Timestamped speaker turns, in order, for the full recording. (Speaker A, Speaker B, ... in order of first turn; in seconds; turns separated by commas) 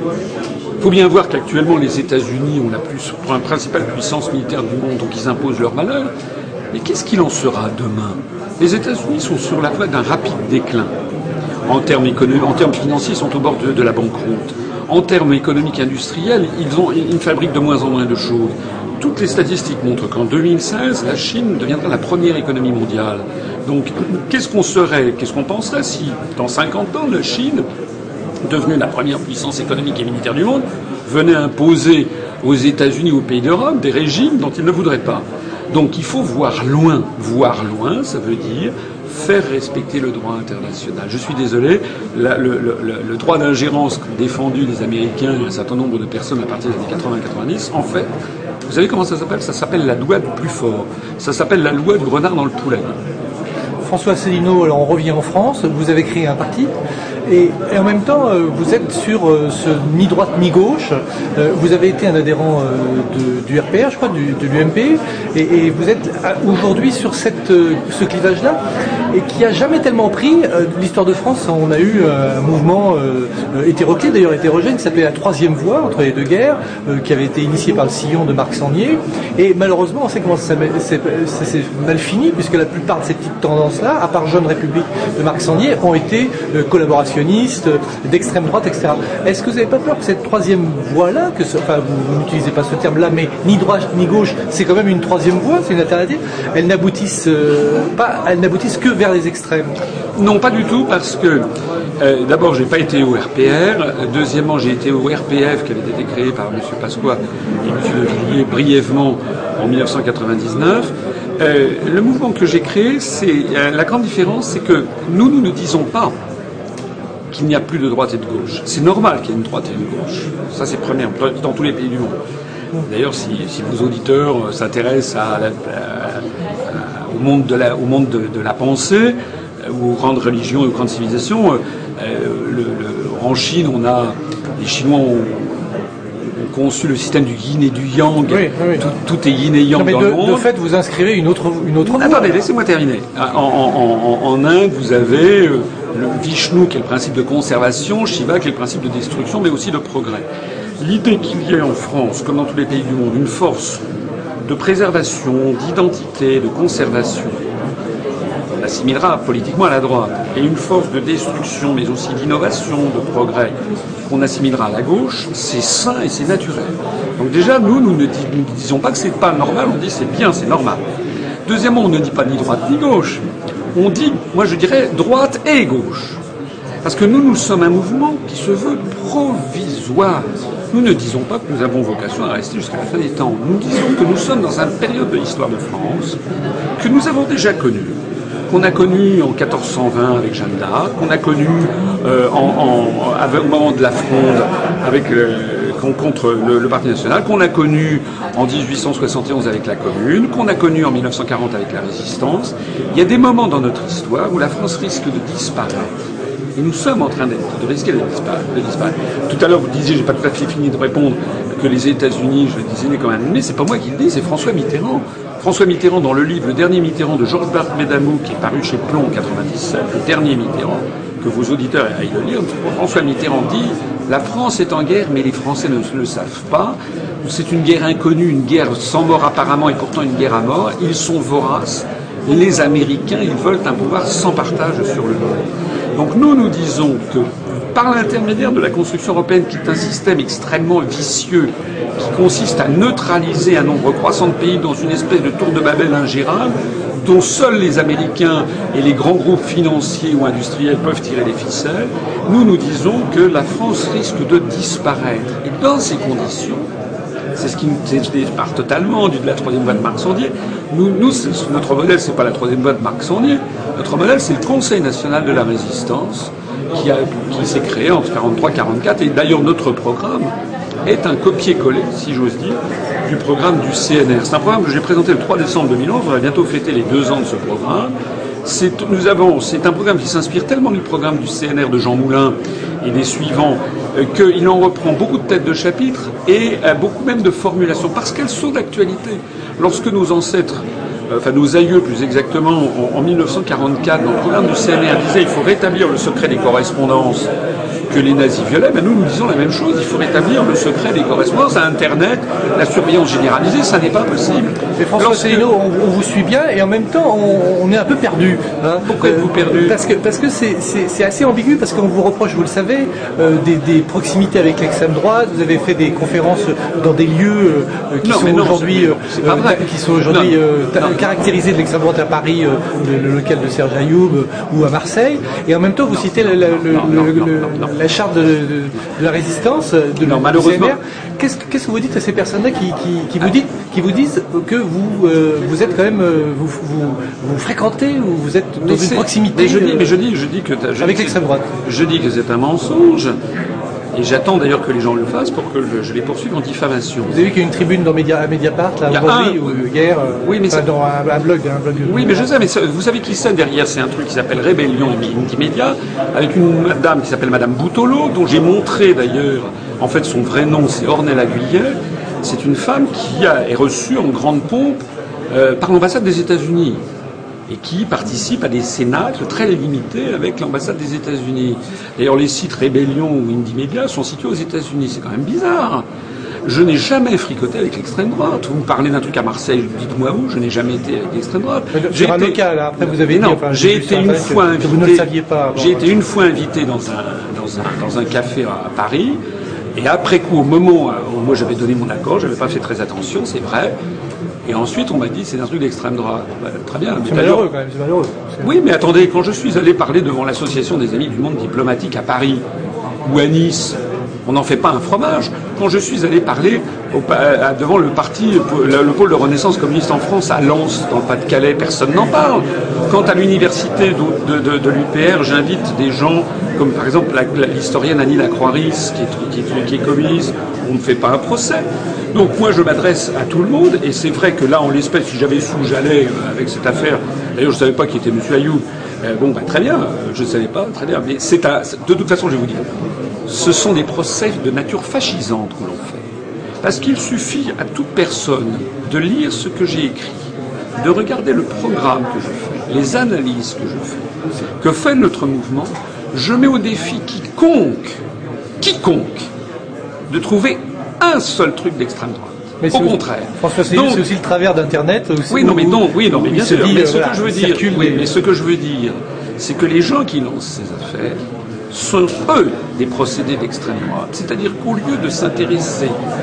Speaker A: 0.8-6.1, Speaker A: 6.7-10.9, Speaker A: 11.7-27.6, Speaker A: 28.4-48.1, Speaker A: 48.7-53.0, Speaker B: 53.9-56.7, Speaker B: 57.3-68.6, Speaker B: 69.1-99.8, Speaker A: 100.2-101.5, Speaker A: 102.0-116.1, Speaker A: 117.3-122.2, Speaker A: 122.8-135.7, Speaker A: 136.2-140.5, Speaker B: 138.3-138.9, Speaker B: 139.8-142.3, Speaker A: 141.8-150.3, Speaker A: 150.8-153.8, Speaker A: 154.4-157.4, Speaker A: 158.6-163.6, Speaker A: 164.1-170.8, Speaker A: 171.5-173.2, Speaker A: 173.8-176.2, Speaker A: 176.8-186.2, Speaker A: 186.8-188.0, Speaker A: 188.5-205.9, Speaker A: 206.6-256.7, Speaker A: 257.4-270.3, Speaker A: 270.9-277.9, Speaker A: 278.4-297.3, Speaker A: 297.9-305.5, Speaker B: 304.8-339.9, Speaker A: 308.8-309.8, Speaker A: 318.0-321.0, Speaker A: 325.9-327.7, Speaker A: 330.0-330.8, Speaker A: 338.6-343.2, Speaker B: 340.8-341.5, Speaker A: 343.9-347.2, Speaker B: 347.1-352.3, Speaker A: 348.9-349.6, Speaker A: 350.2-350.7, Speaker A: 351.8-366.8, Speaker A: 367.5-375.9, Speaker A: 376.5-389.2, Speaker B: 381.7-385.9, Speaker A: 389.8-393.8, Speaker A: 394.4-397.5, Speaker B: 397.0-398.5, Speaker A: 398.4-402.4, Speaker A: 403.0-436.1, Speaker A: 436.6-448.0, Speaker A: 448.6-449.3, Speaker A: 450.1-454.1, Speaker B: 452.6-458.1, Speaker A: 455.3-466.0